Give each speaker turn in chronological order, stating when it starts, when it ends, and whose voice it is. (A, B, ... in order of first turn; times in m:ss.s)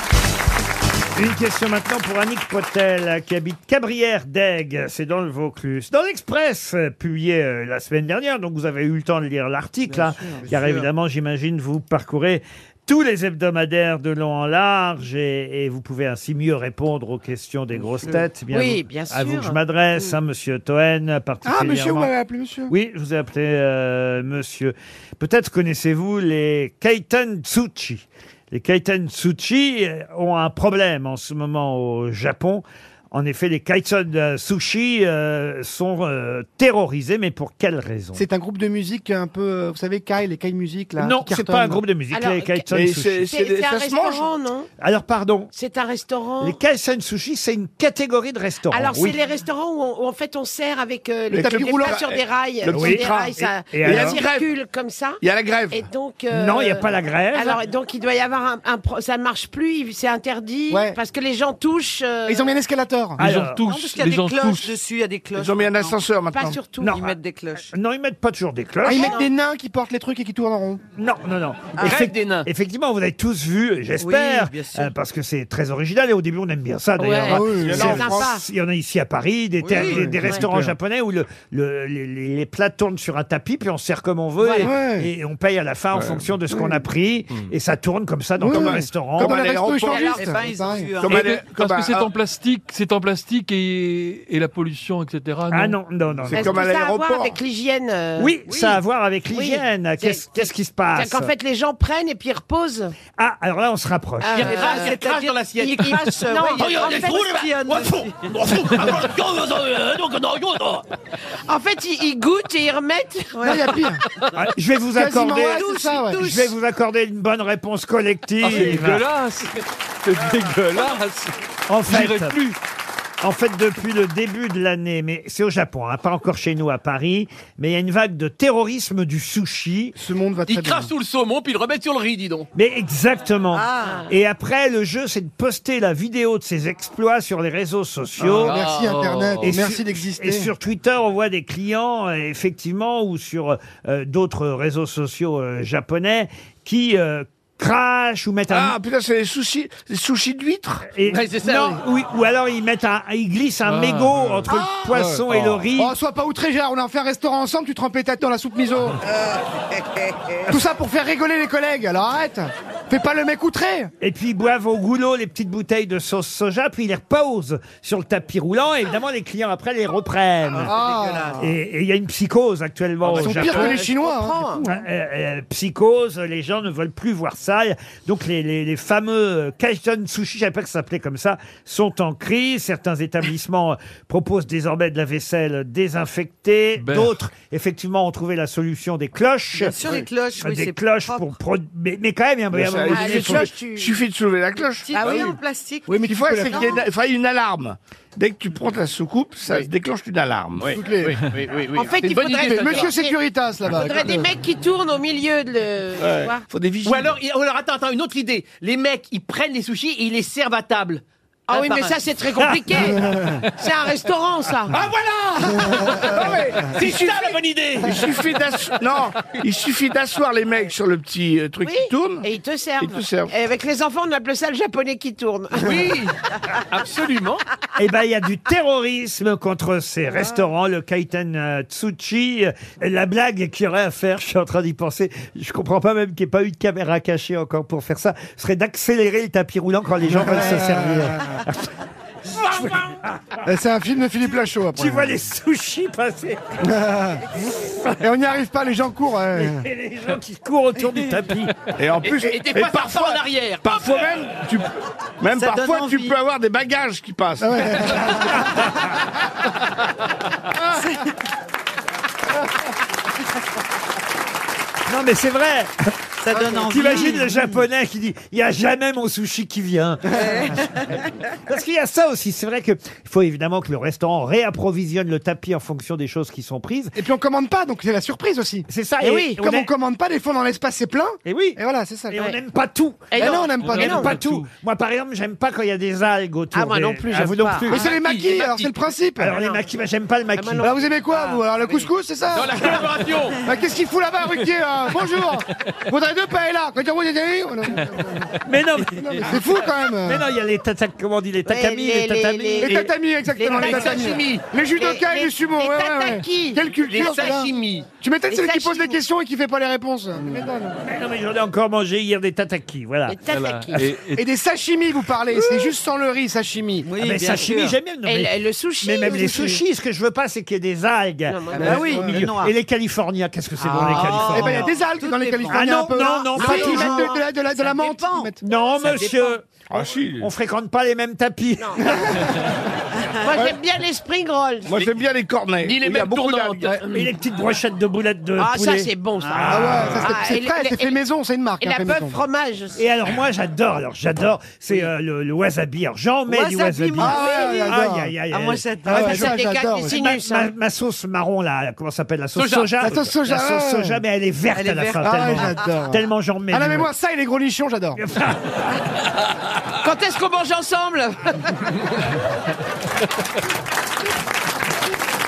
0:01.1-0:22.1 A
0:10.4-0:10.8 B
0:18.5-0:20.1 C
0:21.4-0:22.7 D
0:22.7-0:38.2 A
0:38.2-0:41.8 D
0:41.0-0:43.2 A
0:42.1-0:44.7 C
0:42.7-0:44.3 E
0:44.8-0:45.5 A
0:45.5-0:46.6 C
0:46.4-0:49.2 A
0:48.7-1:02.6 C
0:51.3-0:54.5 E
0:51.3-0:52.0 D
0:52.7-0:54.2 A
0:55.2-0:55.8 E
0:56.3-0:57.6 A
1:00.7-1:01.0 D
1:02.2-1:03.2 D
1:03.2-1:03.6 A
1:03.2-1:04.7 F
1:03.6-1:06.0 B
1:05.3-1:06.6 E
1:06.3-1:07.0 C
1:06.8-1:07.1 A
1:06.8-1:07.7 B
1:07.7-1:09.2 A
1:08.8-1:10.8 D
1:08.9-1:09.3 C
1:11.0-1:29.4 A
1:11.8-1:12.5 G
1:14.0-1:14.9 B
1:17.0-1:18.4 C
1:17.2-1:18.2 D
1:17.6-1:18.2 E
1:19.6-1:20.0 B
1:19.7-1:20.3 D
1:24.4-1:24.7 C
1:24.6-1:25.1 D
1:25.9-1:26.3 E
1:28.4-1:31.0 D
1:29.2-1:30.2 E
1:29.9-1:31.2 B
1:31.0-1:32.1 E
1:31.0-1:35.8 F
1:35.5-1:36.5 A
1:36.3-1:37.4 E
1:36.3-1:38.4 C
1:38.2-1:41.3 A
1:39.3-1:42.9 C
1:43.2-1:44.6 A
1:44.2-1:45.0 C
1:44.3-1:50.8 G
1:44.4-1:48.3 B
1:45.6-1:47.1 C
1:51.5-1:53.6 C
1:53.3-1:53.6 B
1:53.4-1:54.0 D
1:54.3-1:59.0 A
1:55.0-1:56.3 D
1:55.6-1:56.2 B
1:58.4-2:01.3 F
2:01.7-2:02.4 A
2:01.8-2:02.6 F
2:03.2-2:10.0 A
2:10.0-2:10.9 D
2:10.4-2:12.5 G
2:12.5-2:18.6 A
2:13.5-2:14.0 B
2:13.8-2:14.1 C
2:18.2-2:20.5 D
2:18.4-2:19.0 G
2:18.7-2:19.6 F
2:19.4-2:28.7 A
2:28.5-2:30.9 E
2:30.9-2:35.9 A
2:31.0-2:31.8 G
2:33.7-2:34.5 F
2:34.5-2:35.1 D
2:35.3-2:35.6 F
2:35.7-2:39.0 D
2:40.5-2:43.9 D
2:44.0-2:50.7 A
2:50.5-2:51.5 B
2:50.6-2:51.5 D
2:51.4-2:53.8 A
2:53.1-2:54.4 D
2:53.4-2:54.6 C
2:54.6-3:09.8 A
3:06.8-3:07.1 F
3:09.5-3:11.3 B
3:10.4-3:13.5 A
3:12.5-3:15.3 E
3:12.9-3:14.0 C
3:14.8-3:15.9 B
3:15.9-3:16.8 D
3:16.0-3:20.8 E
3:16.4-3:16.8 B
3:20.6-3:23.0 G
3:20.7-3:21.2 D
3:21.7-3:23.2 C
3:22.3-3:24.3 D
3:23.7-3:26.4 C
3:26.0-3:27.1 E
3:26.8-3:32.0 G
3:31.5-3:33.0 C
3:32.4-3:32.9 A
3:32.9-3:33.4 D
3:33.6-3:34.7 C
3:34.7-3:38.1 G
3:35.6-3:36.2 D
3:36.5-3:37.3 E
3:37.8-3:42.2 E
3:41.6-3:46.0 C
3:42.8-3:43.3 E
3:45.5-3:47.4 G
3:47.8-4:01.7 A
4:00.0-4:01.4 D
4:02.3-4:03.4 A
4:03.4-4:05.2 D
4:04.8-4:06.7 A
4:06.6-4:07.2 D
4:07.5-4:08.0 A
4:08.0-4:09.6 D
4:09.3-4:11.6 A
4:11.8-4:14.7 E
4:12.0-4:14.1 G
4:15.2-4:18.0 E
4:15.3-4:16.2 B
4:17.4-4:18.5 D
4:18.3-4:18.6 A
4:20.8-4:21.1 B
4:24.8-4:25.7 A
4:26.2-4:27.5 B
4:26.3-4:26.9 D
4:26.7-4:30.7 A
4:30.2-4:30.9 B
4:31.5-4:37.0 A
4:37.0-4:42.2 D
4:38.7-4:39.7 A
4:39.0-4:39.4 C
4:41.2-4:41.6 A
4:42.1-4:47.8 A
4:43.1-4:44.1 C
4:43.2-4:44.0 D
4:43.6-4:44.5 F
4:46.5-4:47.8 C
4:47.7-4:49.4 D
4:47.7-4:48.8 G
4:49.2-4:50.7 A
4:49.3-4:49.6 C
4:50.3-4:51.9 C
4:50.6-4:52.8 D
4:52.3-4:53.4 G
4:53.4-4:58.3 D
4:58.4-4:59.4 A
4:59.0-5:00.2 D
5:00.0-5:02.8 A
5:01.4-5:04.2 C
5:02.6-5:10.8 D
5:03.6-5:04.4 G
5:04.7-5:06.6 C
5:06.8-5:07.9 G
5:08.3-5:09.0 C
5:10.8-5:13.2 A
5:13.1-5:13.9 C
5:13.3-5:14.3 F
5:14.2-5:16.9 D
5:16.8-5:17.8 B
5:17.0-5:24.7 A
5:18.0-5:19.6 C
5:21.3-5:22.2 C
5:21.5-5:22.5 B
5:21.6-5:22.3 D
5:23.6-5:29.4 B
5:23.8-5:28.4 D
5:25.5-5:27.1 A
5:26.3-5:27.0 C
5:28.4-5:29.4 A
5:29.7-5:30.3 E
5:30.2-5:32.4 A
5:31.6-5:31.9 C
5:33.2-5:34.9 C
5:34.6-5:36.8 E
5:35.6-5:37.1 G
5:36.9-5:40.1 A
5:38.4-5:41.0 C
5:39.2-5:39.7 B
5:39.5-5:42.2 D
5:41.6-5:42.8 C
5:42.8-5:48.6 A
5:46.3-5:47.8 B
5:47.0-5:48.1 D
5:48.3-5:49.4 B
5:48.9-5:50.0 D
5:48.9-5:50.5 C
5:49.9-5:56.9 A
5:52.4-5:52.7 G
5:52.8-5:54.0 D
5:54.5-5:55.7 B
5:55.0-5:58.0 D
5:58.0-5:58.6 A
5:59.8-6:01.3 C